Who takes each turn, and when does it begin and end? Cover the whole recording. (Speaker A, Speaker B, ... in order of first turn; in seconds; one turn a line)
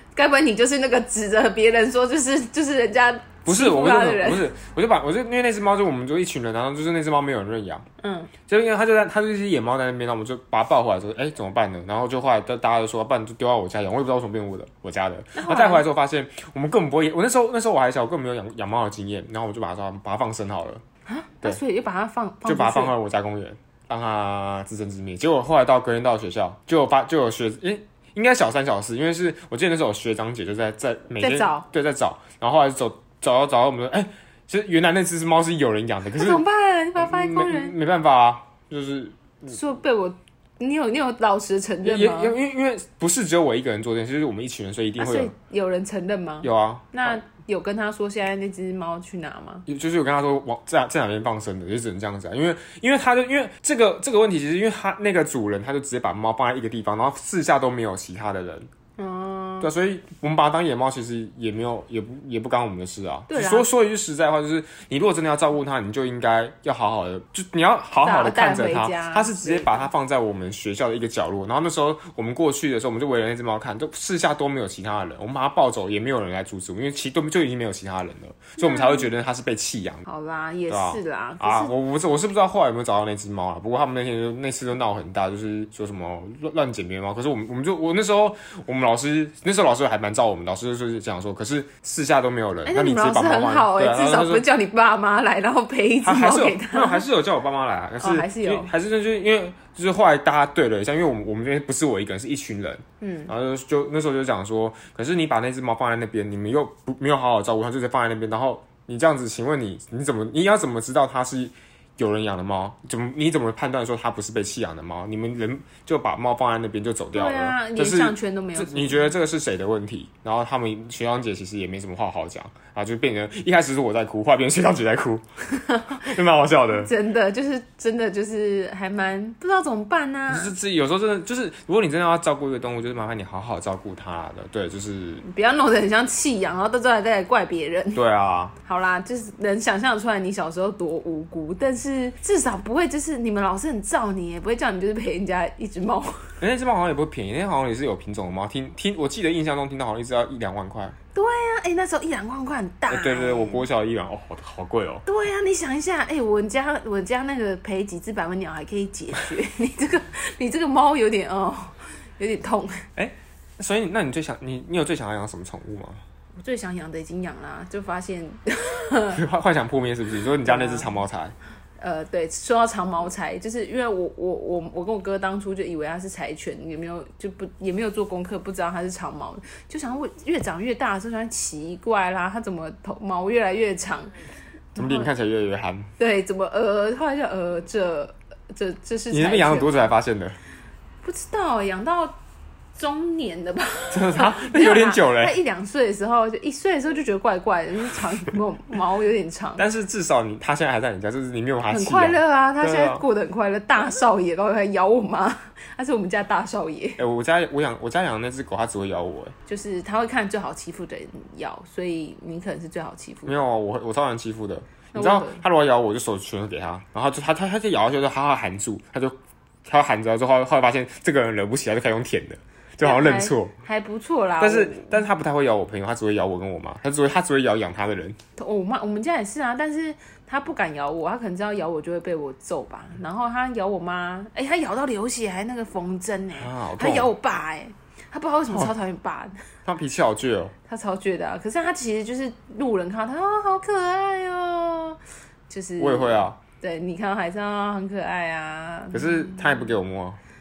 Speaker A: 0.1-4.5
Speaker B: 3.5-7.9
Speaker A: 8.0-8.3
Speaker B: 8.5-20.8
Speaker A: 15.3-15.8
Speaker A: 21.1-22.9
Speaker B: 22.4-36.4
Speaker A: 31.2-31.7
Speaker A: 36.1-37.8
Speaker B: 37.0-39.6
Speaker A: 39.5-42.4
Speaker B: 41.8-45.3
Speaker A: 45.0-49.7
Speaker B: 46.4-47.2
Speaker B: 49.7-58.7
Speaker A: 59.0-59.7
Speaker B: 59.6-80.0
Speaker A: 63.3-63.7
Speaker A: 68.0-69.9
Speaker A: 78.6-79.1
Speaker A: 80.1-81.7
Speaker B: 80.7-94.5
Speaker A: 92.7-97.0
Speaker B: 96.0-125.2
Speaker A: 98.0-98.7
Speaker A: 103.0-103.3
Speaker A: 117.1-119.1
Speaker A: 125.6-126.1
Speaker B: 125.9-126.9
Speaker A: 126.7-130.5
Speaker B: 130.3-135.2
Speaker A: 135.2-138.0
Speaker B: 137.9-138.5
Speaker A: 138.7-146.3
Speaker B: 146.4-151.0
Speaker A: 151.2-153.6
Speaker B: 152.9-155.1
Speaker A: 155.1-162.9
Speaker B: 163.0-166.0
Speaker A: 166.4-169.2
Speaker B: 169.1-171.3
Speaker A: 170.4-170.9
Speaker A: 171.8-184.1
Speaker A: 184.8-185.1
Speaker B: 184.8-185.9
Speaker A: 186.0-189.9
Speaker B: 189.1-190.4
Speaker A: 191.0-192.2
Speaker A: 192.8-199.6
Speaker B: 193.9-195.4
Speaker B: 199.6-203.0
Speaker A: 201.7-207.0
Speaker B: 207.0-209.3
Speaker A: 209.5-213.3
Speaker B: 213.3-219.1
Speaker A: 214.9-215.4
Speaker B: 219.7-223.5
Speaker A: 222.8-224.9
Speaker B: 224.4-228.2
Speaker A: 228.4-239.4
Speaker B: 236.4-237.1
Speaker B: 239.7-240.5
Speaker A: 240.7-249.7
Speaker B: 245.8-246.4
Speaker B: 248.9-250.2